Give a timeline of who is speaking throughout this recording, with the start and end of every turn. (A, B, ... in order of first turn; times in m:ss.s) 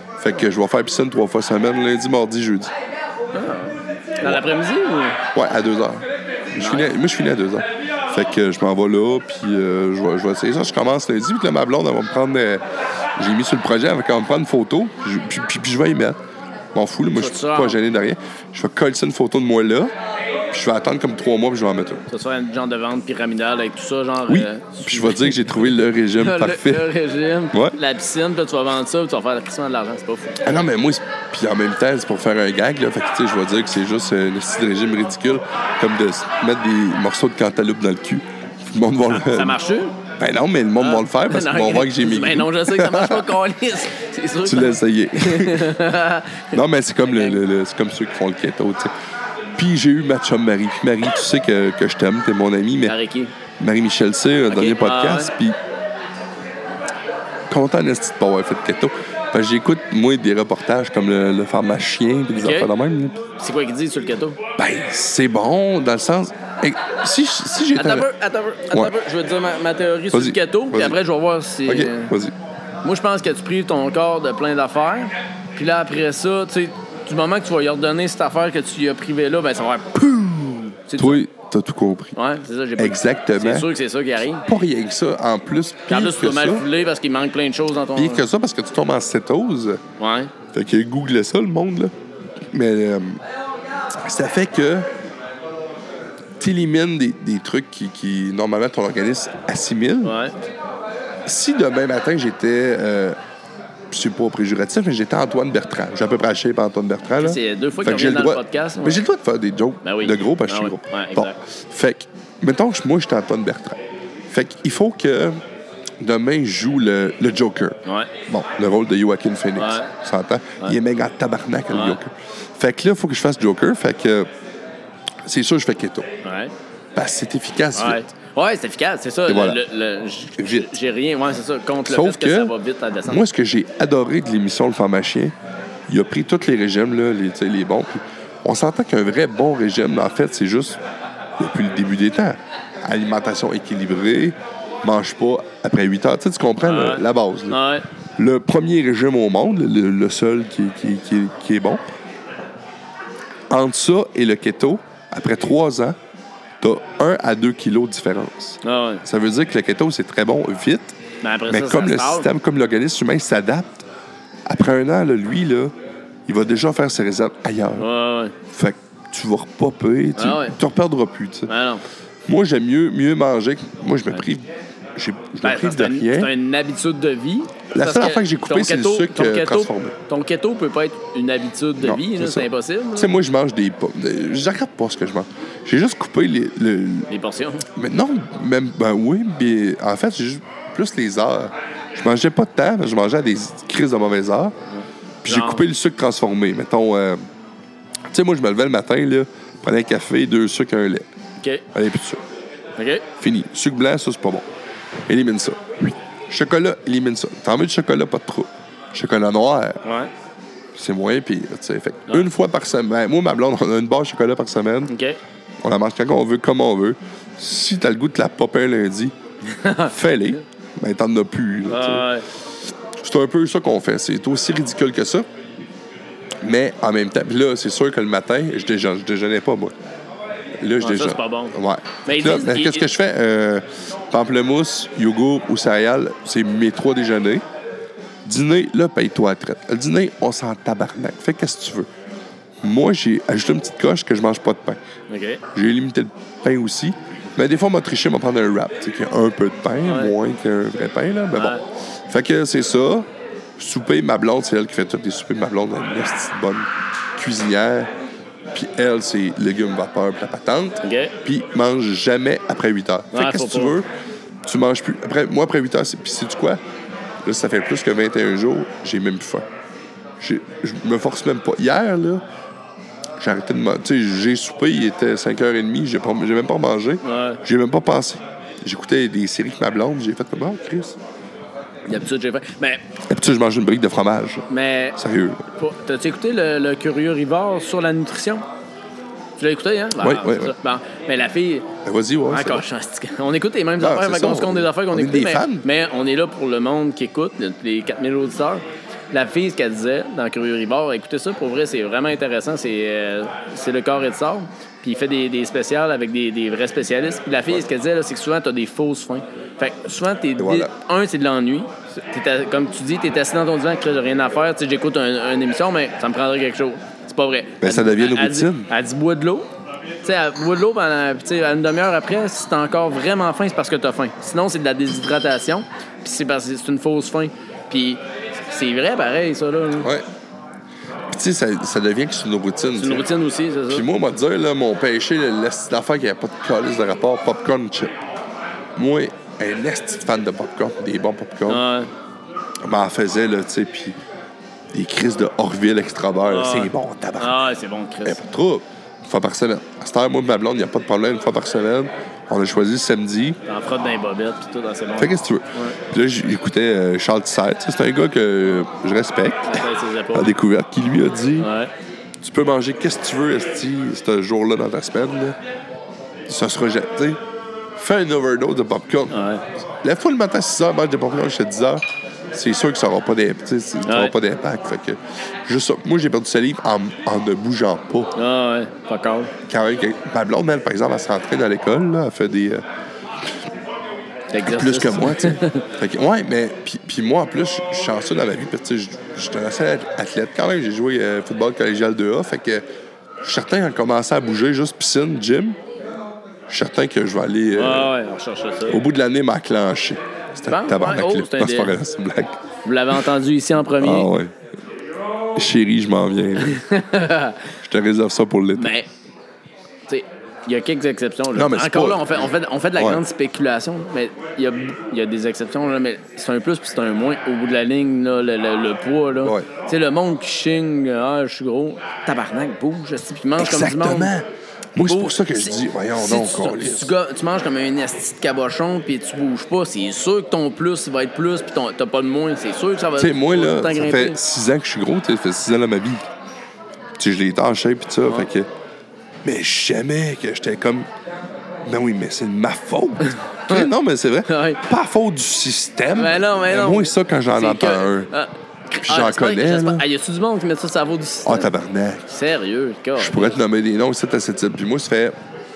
0:00.2-0:02.7 A
0:03.3-0:05.2 B
0:05.3-0:12.6 A
0:06.6-0:06.9 B
0:13.2-0:16.2 A
0:16.7-0:19.9 A
0:17.1-0:17.8 B
0:20.5-0:22.0 A
0:22.1-0:30.4 B
0:24.3-0:26.9 A
0:27.5-0:27.8 A
0:30.4-0:39.6 A
0:39.1-0:40.0 B
0:40.2-0:43.2 A
0:40.8-0:47.4 B
0:44.4-0:45.7 A
0:46.5-0:48.9 A
0:49.6-0:52.9 A
0:52.8-0:53.3 B
0:53.6-0:55.6 A
0:54.5-0:55.3 B
0:57.5-1:03.2 A
1:02.3-1:02.7 B
1:03.4-1:04.4 B
1:04.6-1:08.1 A
1:07.7-1:12.1 B
1:10.1-1:11.0 A
1:11.6-1:12.3 A
1:12.8-1:21.2 B
1:21.0-1:22.2 A
1:22.2-1:24.4 B
1:22.8-1:23.7 A
1:24.4-1:26.6 A
1:25.9-1:28.3 B
1:27.9-1:29.8 A
1:30.0-1:30.3 B
1:30.5-1:31.9 A
1:32.5-1:33.2 A
1:34.0-1:34.9 A
1:36.4-1:40.2 A
1:40.0-1:40.3 B
1:41.2-1:43.2 A
1:43.9-1:55.4 A
1:47.2-1:49.0 B
1:49.8-1:51.4 B
1:56.0-2:04.3 A
1:57.8-1:58.1 B
1:59.6-1:59.9 B
2:01.7-2:02.0 B
2:05.2-2:06.1 A
2:06.2-2:06.5 B
2:06.9-2:08.1 A
2:07.7-2:13.2 B
2:09.3-2:09.6 A
2:10.4-2:10.7 A
2:11.8-2:12.5 A
2:13.1-2:15.3 A
2:15.9-2:20.8 A
2:21.4-2:27.6 A
2:26.6-2:27.8 B
2:28.2-2:31.8 A
2:33.5-2:36.0 A
2:36.6-2:41.0 A
2:38.6-2:39.0 B
2:41.2-2:42.3 B
2:41.5-2:43.8 A
2:44.4-2:45.7 A
2:46.3-2:47.9 A
2:47.8-2:48.3 B
2:48.5-2:51.5 A
2:50.2-2:50.6 B
2:51.5-2:51.8 B
2:52.3-2:56.3 A
2:55.4-3:03.1 B
2:57.7-3:00.0 A
3:01.8-3:07.1 A
3:07.1-3:07.6 B
3:07.7-3:14.6 A
3:14.7-3:15.6 B
3:15.2-3:17.2 A
3:18.1-3:21.0 A
3:21.4-3:21.6 B
3:21.7-3:22.2 A
3:22.8-3:23.0 B
3:23.2-3:24.4 A
3:25.1-3:29.8 A
3:29.8-3:30.1 B
3:30.7-3:34.9 A
3:34.9-3:35.2 B
3:35.6-3:39.1 A
3:39.4-3:39.9 B
3:39.8-3:42.1 A
3:41.7-3:42.2 B
3:43.0-3:45.2 A
3:46.4-3:49.7 A
3:50.6-3:57.4 A
3:50.8-3:52.9 B
3:58.2-4:01.9 A
4:02.6-4:04.8 A
4:05.1-4:05.4 B
4:05.5-4:13.1 A
4:09.8-4:10.1 B
4:11.3-4:11.6 B
4:13.6-4:17.9 A
4:18.5-4:23.9 A
4:20.8-4:21.1 B
4:23.1-4:23.8 B
4:24.4-4:26.6 A
4:27.2-4:29.5 A
4:30.2-4:32.2 A
4:33.2-4:41.0 A
4:37.0-4:37.4 B
4:41.9-4:42.8 B
4:43.1-4:44.4 A
4:44.5-4:45.0 B
4:45.0-4:45.4 A
4:45.5-4:48.4 B
4:49.4-4:51.7 B
4:50.0-4:50.5 A
4:51.8-4:52.6 A
4:52.3-5:19.5 B
4:53.8-4:55.6 A
5:10.4-5:10.7 A
5:17.6-5:18.7 A
5:20.0-5:29.9 B
5:31.1-5:33.1 A
5:32.8-5:33.9 B
5:33.7-5:38.0 A
5:38.8-5:41.6 A
5:41.5-5:41.9 B
5:42.6-5:44.0 A
5:44.7-5:47.4 A
5:46.2-5:48.2 B
5:48.0-5:53.4 A
5:53.5-5:55.8 B
5:55.0-5:59.6 A
5:59.5-6:00.3 B
6:00.1-6:01.5 A
6:01.4-6:01.7 B
6:02.2-6:05.4 A
6:06.3-6:07.2 A
6:07.8-6:09.2 A
6:09.1-6:09.4 B
6:09.8-6:18.1 A
6:13.8-6:14.1 B
6:18.1-6:19.3 B
6:19.5-6:22.6 A
6:24.3-6:25.7 B
6:24.4-6:32.6 A
6:33.2-6:35.6 A
6:36.5-6:37.9 A
6:37.5-6:38.8 B
6:38.7-6:42.4 A
6:40.5-6:41.7 B
6:42.6-6:44.1 B
6:43.8-6:44.3 A
6:45.4-6:46.6 A
6:46.4-6:47.5 B
6:47.6-6:48.7 A
6:48.6-6:48.9 B
6:49.9-7:04.1 B
6:51.3-6:52.2 A
6:52.8-6:53.0 A
6:59.2-6:59.5 A
7:03.4-7:06.9 A
7:04.8-7:14.2 B
7:13.0-7:16.0 A
7:17.0-7:18.5 A
7:19.2-7:20.9 A
7:21.6-7:28.1 A
7:24.3-7:24.6 B
7:25.9-7:31.5 B
7:28.8-7:29.8 A
7:31.2-7:32.1 A
7:32.1-7:33.4 B
7:33.0-7:35.1 A